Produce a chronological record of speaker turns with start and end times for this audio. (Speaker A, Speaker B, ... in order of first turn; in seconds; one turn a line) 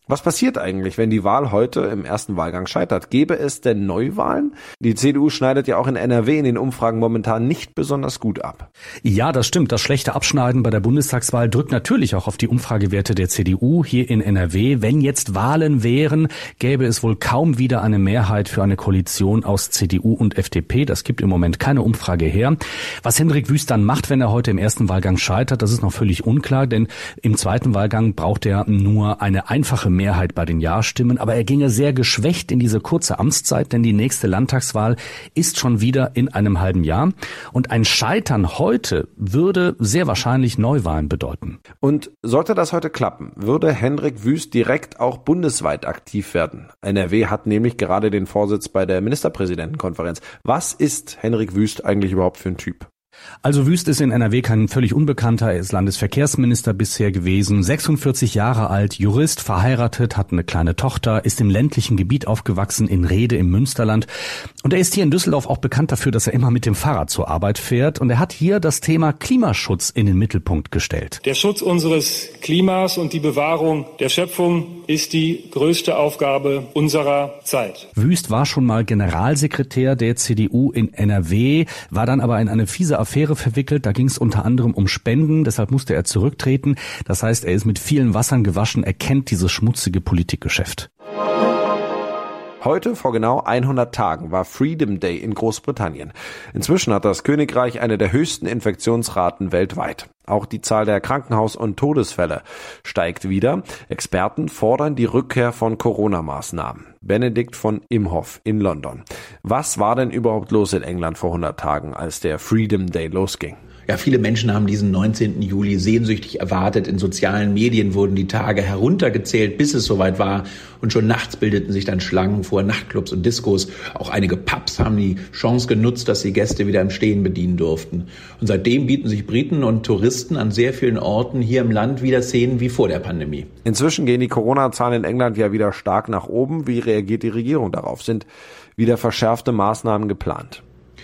Speaker A: 0.1-8.7
Speaker B: 9.0-41.6
Speaker A: 41.8-52.9
Speaker B: 53.4-64.1
Speaker B: 64.6-71.2
Speaker C: 71.2-77.9
Speaker B: 78.0-90.9
Speaker A: 92.6-113.6
Speaker D: 113.9-133.5
Speaker A: 133.7-140.6